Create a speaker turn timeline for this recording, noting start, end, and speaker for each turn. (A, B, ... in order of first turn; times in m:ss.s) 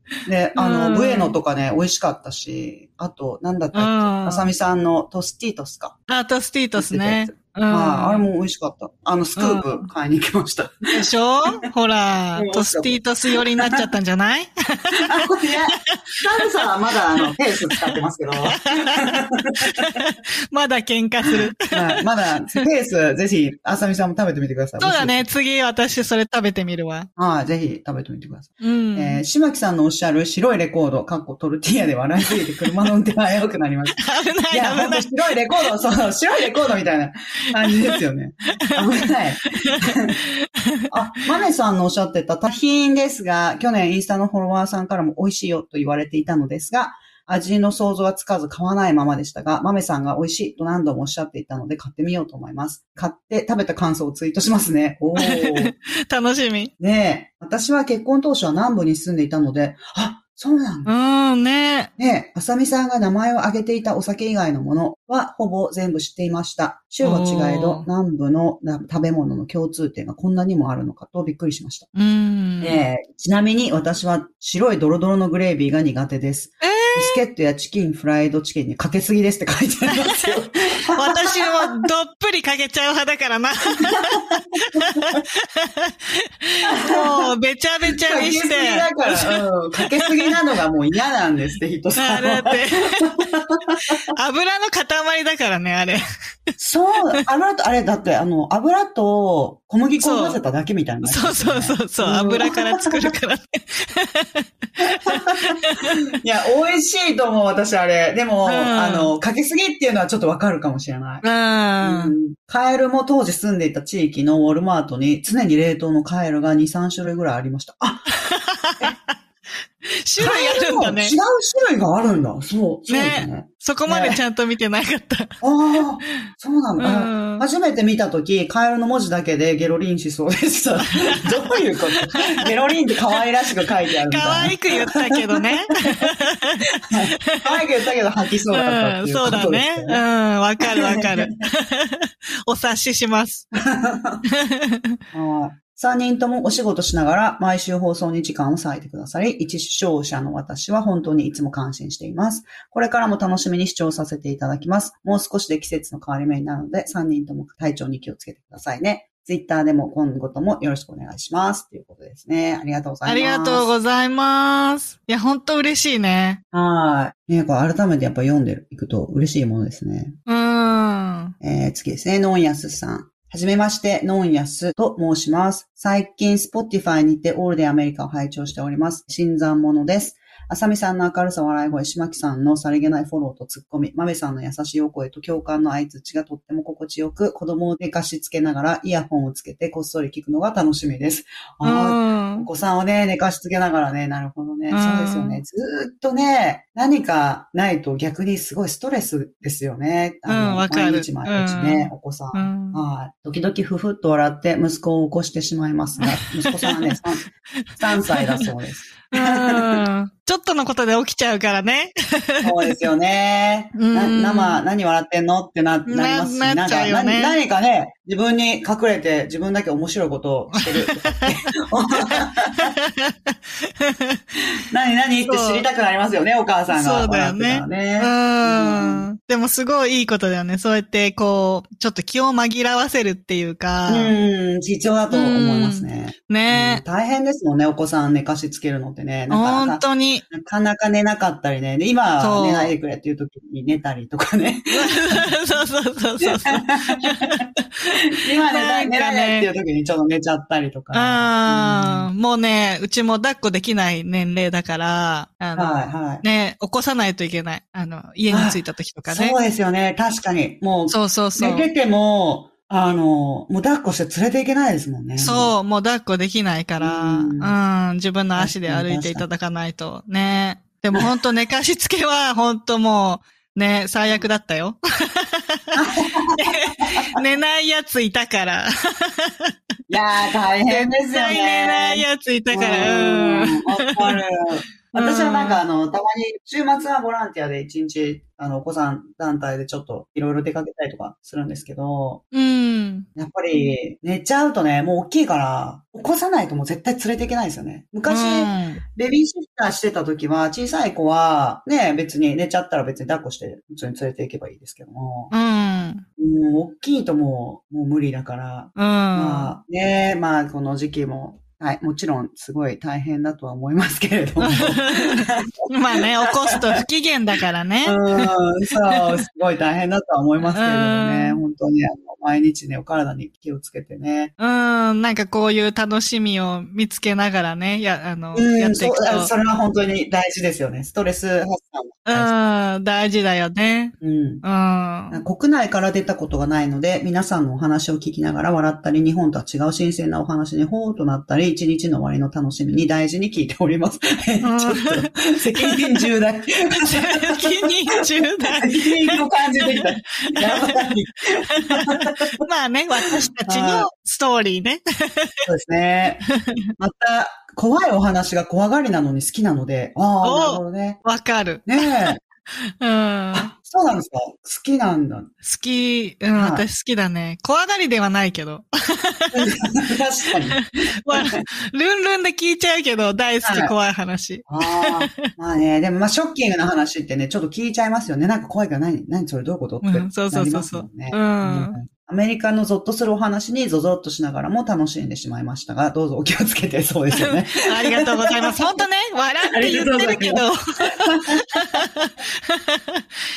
0:00.2-0:06.0 A
0:00.6-0:01.4 B
0:03.7-0:04.5 B
0:06.1-0:08.2 B
0:06.8-0:11.6 A
0:09.4-0:09.8 B
0:10.9-0:16.7 B
0:12.4-0:13.8 A
0:14.9-0:20.0 A
0:17.2-0:22.0 B
0:21.3-0:25.3 A
0:24.8-0:27.1 B
0:27.2-0:34.0 A
0:28.6-0:29.2 B
0:34.0-0:35.1 B
0:34.5-0:40.2 A
0:37.5-0:38.0 B
0:39.4-0:40.9 B
0:40.9-0:55.7 A
0:55.2-0:56.7 B
0:56.8-1:00.9 A
1:00.8-1:01.9 B
1:02.0-1:11.9 A
1:07.0-1:07.9 B
1:11.9-1:12.8 B
1:12.6-1:21.8 A
1:16.6-1:17.2 B
1:19.9-1:20.4 B
1:21.0-1:30.3 B
1:24.8-1:25.1 A
1:26.6-1:27.3 A
1:27.9-1:34.1 A
1:32.0-1:33.1 B
1:34.1-1:36.0 B
1:36.6-1:43.1 A
1:40.0-1:40.4 B
1:41.0-1:46.0 B
1:44.8-1:51.2 A
1:48.4-1:49.1 B
1:51.2-1:52.1 B
1:51.8-1:58.1 A
1:58.3-1:59.0 B
2:00.0-2:01.2 B
2:00.2-2:04.2 A
2:02.9-2:05.4 B
2:05.4-2:16.1 A
2:06.8-2:07.4 B
2:11.0-2:12.5 B
2:14.1-2:16.7 B
2:16.9-2:20.0 A
2:17.2-2:17.6 B
2:18.5-2:23.5 B
2:20.6-2:21.3 A
2:23.5-2:24.2 A
2:24.3-2:25.0 B
2:25.1-2:43.7 A
2:43.0-2:46.4 B
2:46.5-2:50.2 A
2:50.3-2:51.3 B
2:51.4-3:29.8 A
3:11.6-3:12.5 B
3:14.7-3:15.4 B
3:20.3-3:22.8 B
3:26.0-3:27.0 B
3:27.8-3:28.5 B
3:29.1-3:32.7 B
3:32.4-3:42.7 A
3:33.7-3:34.6 B
3:35.9-3:37.4 B
3:40.6-3:41.5 B
3:42.1-3:44.2 B
3:44.7-3:49.1 A
3:45.2-3:45.7 B
3:46.7-3:54.1 B
3:53.9-4:05.3 A
3:55.1-3:56.8 B
3:59.3-4:00.2 B
4:02.2-4:02.7 B
4:04.7-4:07.6 B
4:06.2-4:07.5 A
4:08.0-4:12.1 A
4:08.5-4:09.5 B
4:10.9-4:19.4 B
4:15.5-4:16.2 A
4:18.3-4:25.5 A
4:20.9-4:21.7 B
4:25.2-4:39.5 B
4:26.8-4:27.6 A
4:28.4-4:29.2 A
4:35.7-4:37.2 A
4:39.9-4:52.2 A
4:40.7-4:44.2 B
4:44.9-4:45.6 B
4:52.3-4:53.1 B
4:53.2-5:05.3 A
4:58.0-4:58.8 B
5:05.3-5:06.0 B
5:06.2-5:16.8 A
5:08.8-5:09.5 B
5:14.4-5:18.3 B
5:17.8-5:24.3 A
5:18.9-5:19.2 B
5:20.4-5:21.4 B
5:24.4-5:29.3 B
5:28.3-5:32.3 A
5:32.1-5:35.2 B
5:34.0-5:34.4 A
5:35.1-5:52.4 A
5:44.4-5:46.0 B
5:46.9-5:50.9 B
5:51.5-5:55.4 B
5:53.1-5:53.9 A
5:55.4-5:56.2 A
5:56.3-5:56.6 B
5:56.8-6:01.0 A
6:00.2-6:02.2 B
6:01.6-6:02.2 A
6:02.8-6:03.5 B
6:03.3-6:05.3 A
6:05.4-6:09.4 B
6:06.3-6:06.6 A
6:09.3-6:11.4 A
6:10.5-6:15.1 B
6:13.4-6:13.7 A
6:14.4-6:28.8 A
6:19.8-6:21.8 B
6:27.1-6:33.0 B
6:29.5-6:31.8 A